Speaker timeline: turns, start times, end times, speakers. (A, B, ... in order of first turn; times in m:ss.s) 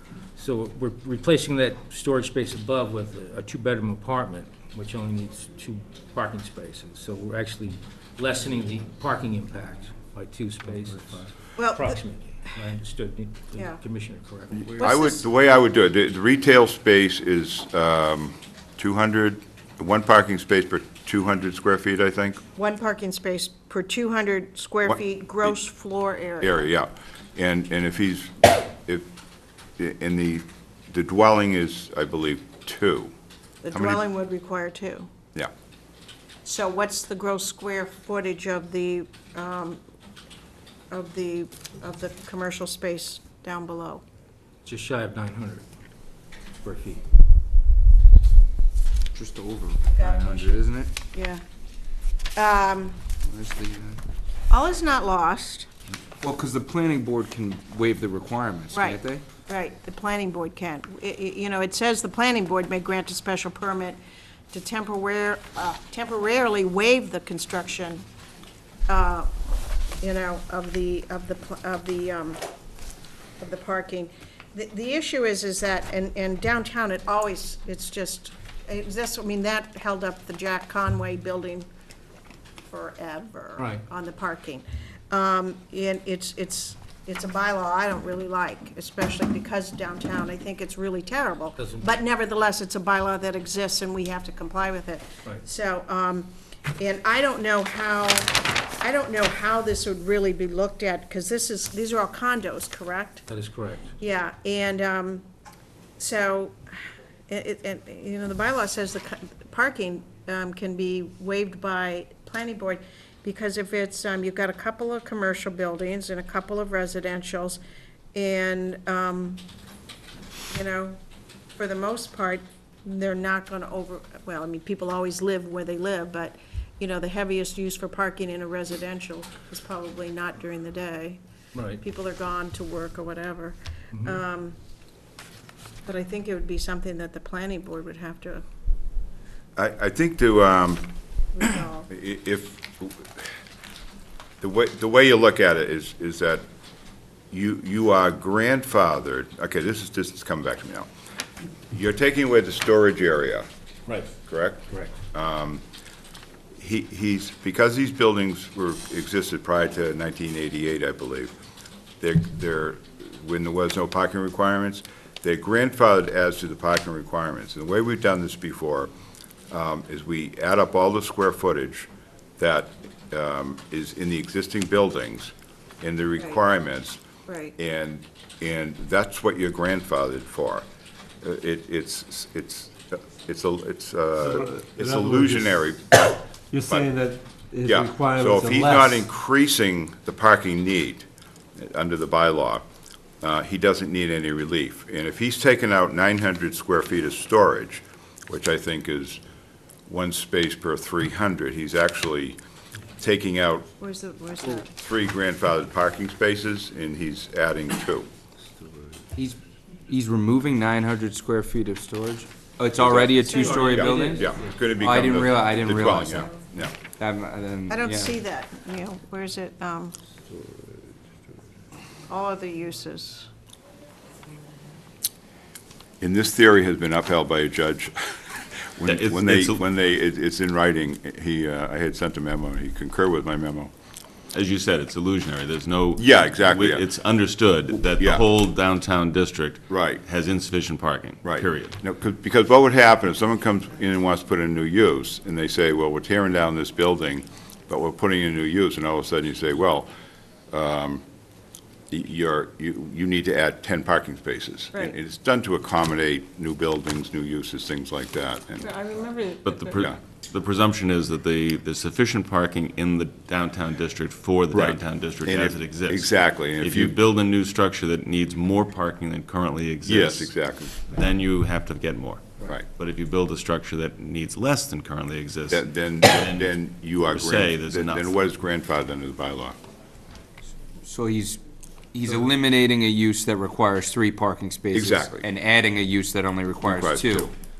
0:00.3-0:14.7 A
0:11.6-0:12.0 B
0:14.7-0:22.4 C
0:14.8-0:15.2 B
0:22.6-0:26.6 B
0:24.8-0:25.5 C
0:26.4-0:29.1 C
0:29.8-0:33.1 C
0:33.6-0:35.1 B
0:33.7-0:34.0 C
0:36.4-0:39.8 B
0:40.9-0:44.0 B
0:44.6-0:45.6 A
0:46.6-0:47.0 A
0:49.1-0:50.9 D
0:50.0-0:51.4 B
0:52.4-0:53.0 B
0:53.2-0:54.0 D
0:54.5-0:55.7 B
0:56.2-0:59.2 D
0:58.7-1:04.0 B
1:04.5-1:08.0 B
1:08.9-1:09.3 B
1:10.0-1:12.4 B
1:13.4-1:21.7 B
1:22.7-1:43.3 B
1:23.6-1:23.8 A
1:31.6-1:32.0 A
1:43.3-1:43.9 A
1:44.0-1:45.2 B
1:46.0-1:46.8 B
1:47.3-1:57.6 B
1:58.1-1:59.4 B
2:00.5-2:01.0 B
2:01.6-2:11.2 B
2:11.5-2:11.8 A
2:11.8-2:14.6 B
2:13.9-2:14.2 A
2:15.8-2:18.4 B
2:19.6-2:20.9 C
2:21.3-2:21.9 B
2:21.9-2:23.1 C
2:24.4-2:26.4 C
2:27.3-2:30.9 C
2:31.7-2:33.5 C
2:34.2-2:35.6 C
2:36.6-2:41.3 C
2:42.0-2:48.9 C
2:49.5-2:57.0 C
2:57.3-2:57.5 B
2:57.6-3:00.6 C
3:01.2-3:06.1 C
3:04.2-3:05.5 E
3:06.5-3:09.0 E
3:06.6-3:06.9 C
3:07.6-3:12.6 C
3:13.2-3:19.2 C
3:19.9-3:22.4 C
3:23.0-3:23.7 C
3:23.8-3:24.7 B
3:24.6-3:28.1 C
3:29.1-3:36.3 D
3:32.8-3:36.7 C
3:33.2-3:34.1 B
3:36.9-3:38.2 D
3:37.7-3:39.9 B
3:42.1-3:43.3 B
3:46.0-3:47.9 C
3:48.8-3:53.7 C
3:48.8-3:49.6 F
3:54.3-4:01.8 F
3:56.0-3:56.9 C
3:57.8-3:58.2 C
3:59.7-4:00.0 C
4:01.2-4:09.9 C
4:10.5-4:11.0 C
4:11.9-4:18.7 C
4:18.6-4:19.6 B
4:19.4-4:38.2 F
4:24.5-4:27.0 C
4:29.8-4:30.8 C
4:35.5-4:39.6 C
4:40.8-4:41.4 D
4:41.9-4:47.3 D
4:44.7-4:45.2 C
4:46.6-4:47.3 C